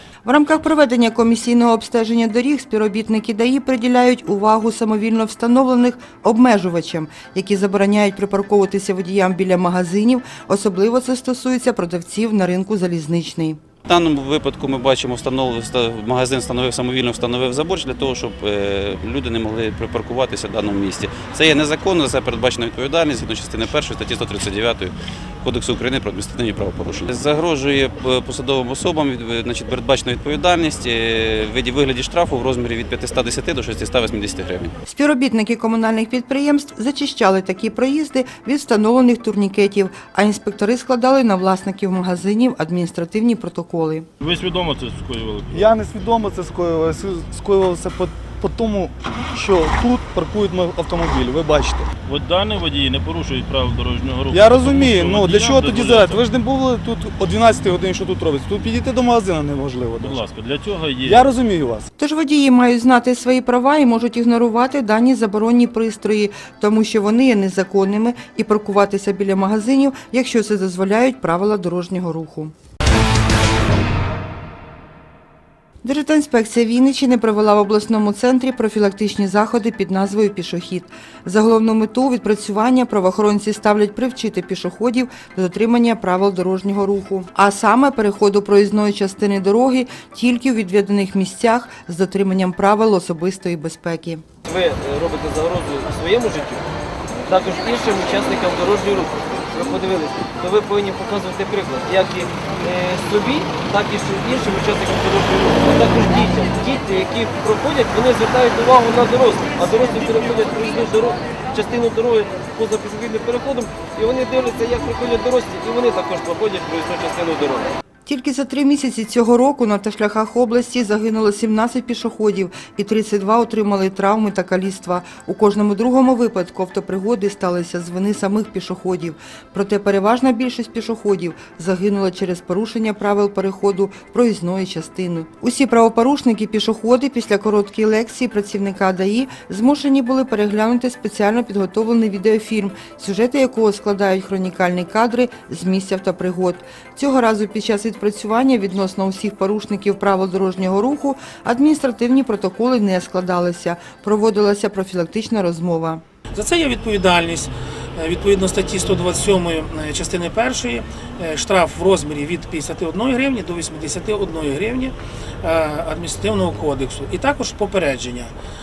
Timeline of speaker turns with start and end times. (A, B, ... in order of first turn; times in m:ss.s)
0:00.2-0:13.6 A
0:13.8-0:34.7 B
0:34.8-0:44.1 A
0:44.2-0:45.7 C
0:45.5-0:51.9 D
0:52.0-0:56.2 C
0:54.3-1:00.3 D
1:00.0-1:01.3 C
1:01.0-1:01.9 D
1:02.0-1:12.5 A
1:15.8-1:34.2 A
1:34.4-1:36.7 E
1:37.2-1:57.7 E
1:58.0-2:36.0 A
2:36.3-2:48.3 F